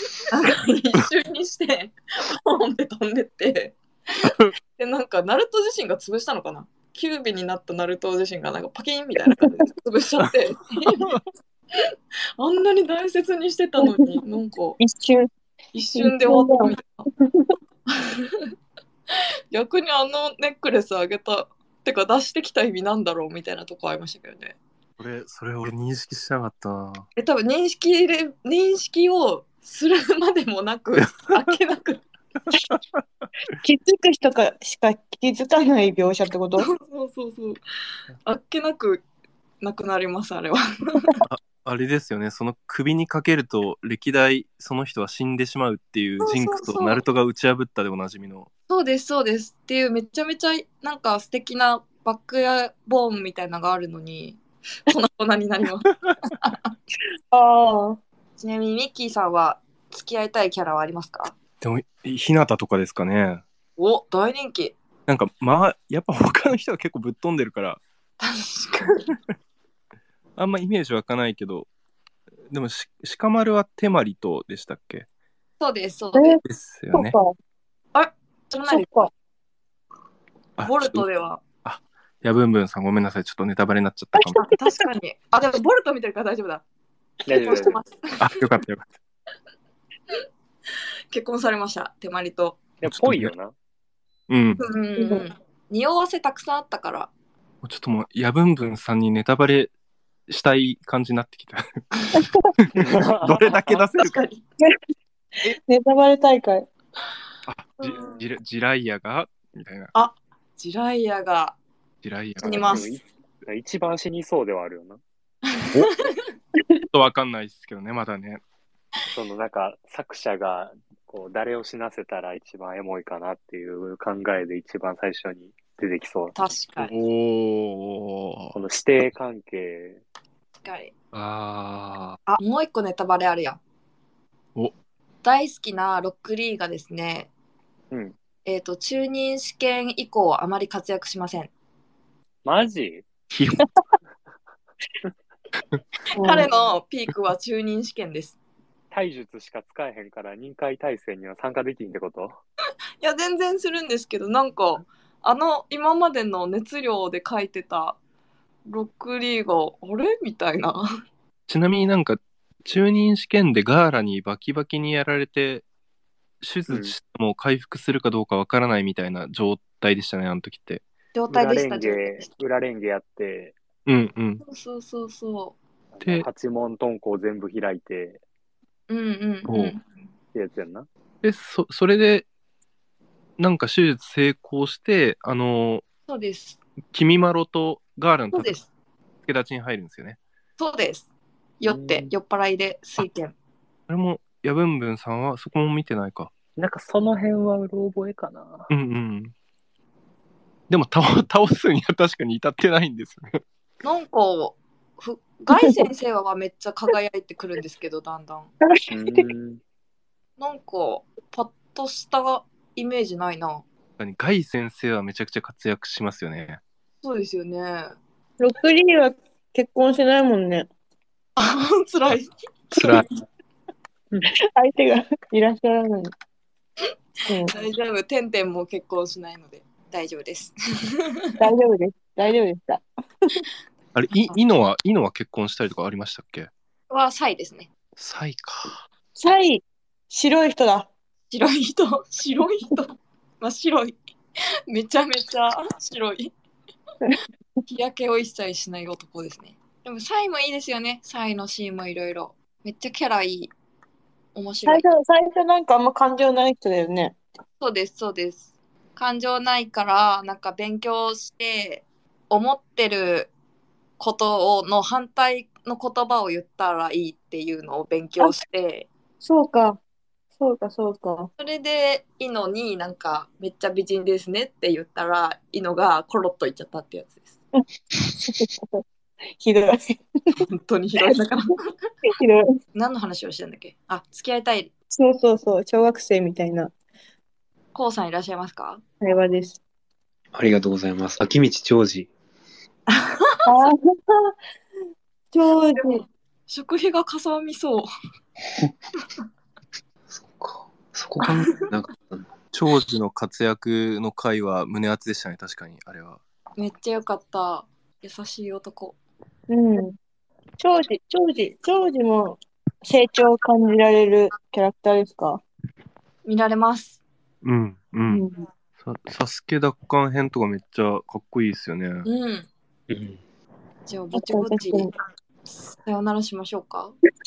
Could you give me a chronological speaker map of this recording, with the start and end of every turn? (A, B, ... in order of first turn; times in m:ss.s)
0:00.3-0:11.1 A
0:04.2-0:04.5 B
0:12.4-0:14.8 A
0:13.8-0:14.2 C
0:14.8-0:15.3 C
0:15.7-0:17.1 A
0:16.0-0:16.7 C
0:17.9-0:18.3 A
0:19.5-0:24.6 A
0:25.0-0:27.1 B
0:27.2-0:32.1 A
0:31.0-0:31.4 B
0:32.5-0:32.8 B
0:33.6-0:36.7 C
0:36.6-0:37.6 A
0:38.2-0:39.0 A
0:39.6-0:41.1 A
0:41.2-0:48.5 B
0:46.2-0:47.0 A
0:48.7-0:56.7 A
0:57.3-0:58.0 C
0:58.4-1:01.4 A
1:01.6-1:03.4 B
1:03.8-1:04.8 A
1:05.1-1:07.8 B
1:08.2-1:09.1 A
1:10.4-1:11.7 B
1:12.5-1:15.0 B
1:15.6-1:16.4 A
1:16.1-1:16.4 C
1:16.4-1:17.1 B
1:16.9-1:17.3 C
1:17.9-1:19.1 A
1:18.6-1:19.1 C
1:20.6-1:21.0 B
1:20.6-1:21.4 A
1:21.6-1:24.4 B
1:24.2-1:24.5 C
1:24.4-1:26.6 A
1:27.2-1:27.8 D
1:27.3-1:28.0 A
1:28.2-1:28.9 B
1:31.1-1:32.6 A
1:32.8-1:33.5 D
1:32.9-1:33.3 B
1:34.3-1:34.6 B
1:34.6-1:37.1 A
1:35.0-1:35.2 C
1:37.6-1:39.7 B
1:40.3-1:41.6 B
1:42.6-1:44.2 B
1:42.8-1:43.8 D
1:43.9-1:44.4 A
1:45.4-1:46.7 C
1:47.5-1:49.9 B
1:47.8-1:48.1 A
1:49.9-1:51.6 A
1:52.0-1:52.8 B
1:52.4-1:55.0 D
1:52.4-1:52.8 A
1:55.5-1:55.9 A
1:56.9-1:58.4 B
1:59.1-2:06.3 D
2:06.3-2:06.9 A
2:06.8-2:08.5 B
2:08.5-2:10.0 D
2:10.6-2:10.9 A
2:11.1-2:12.2 B
2:12.3-2:13.6 A
2:15.2-2:17.3 A
2:18.4-2:21.5 A
2:22.4-2:23.1 D
2:23.3-2:23.6 B
2:26.2-2:26.5 C
2:26.2-2:28.4 A
2:28.9-2:32.4 D
2:33.0-2:38.0 A
2:38.6-2:40.8 A
2:41.5-2:45.6 B
2:46.4-2:50.8 B
2:46.7-2:46.9 D
2:51.1-2:52.3 A
2:51.3-2:53.6 D
2:53.8-2:54.4 B
2:54.4-2:55.6 A
2:55.9-2:58.2 D
2:58.9-2:59.8 A
2:59.5-2:59.8 B
3:00.3-3:00.9 D
3:01.2-3:02.3 B
3:03.4-3:05.8 B
3:06.1-3:06.6 A
3:06.9-3:08.6 B
3:08.3-3:08.6 A
3:09.2-3:10.2 B
3:10.6-3:11.1 A
3:11.6-3:13.3 A
3:11.6-3:12.1 D
3:13.9-3:16.3 B
3:16.6-3:18.7 D
3:18.7-3:19.3 B
3:20.7-3:23.4 B
3:23.8-3:28.5 A
3:28.6-3:29.2 C
3:28.9-3:29.6 D
3:30.4-3:33.6 A
3:34.0-3:36.6 B
3:37.0-3:37.9 A
3:38.4-3:40.7 C
3:41.4-3:43.0 A
3:42.8-3:43.1 B
3:44.6-3:46.1 C
3:47.3-3:47.5 C
3:47.5-3:51.0 A
3:51.4-3:53.4 C
3:53.9-3:56.5 B
3:56.9-3:57.7 A
3:58.0-3:58.8 B
3:59.2-4:00.9 C
4:01.3-4:04.0 A
4:04.7-4:06.3 A
4:07.7-4:13.5 A
4:14.3-4:14.9 A
4:14.6-4:17.2 C
4:17.6-4:23.3 A
4:24.0-4:28.9 A
4:29.2-4:29.8 C
4:30.4-4:31.3 C
4:31.4-4:37.3 A
4:38.2-4:38.8 C
4:39.4-4:40.0 C
4:40.4-4:41.6 A
4:42.1-4:42.5 C
4:42.7-4:44.7 A
4:44.9-4:46.7 C
4:47.7-4:48.8 A
4:49.0-4:49.6 C
4:50.3-4:52.1 E
4:52.9-4:53.5 A
4:53.4-4:54.3 C
4:55.3-4:56.0 C
4:56.5-4:57.9 A
5:00.1-5:02.3 E
5:02.5-5:06.2 B
5:06.6-5:09.0 A
5:09.5-5:10.0 C
5:10.6-5:15.4 C
5:16.2-5:17.0 A
5:17.4-5:18.2 B
5:18.1-5:18.4 C
5:18.8-5:22.1 B
5:22.0-5:22.5 A
5:22.9-5:23.2 E
5:23.9-5:24.9 A
5:24.1-5:24.9 C
5:25.4-5:26.9 A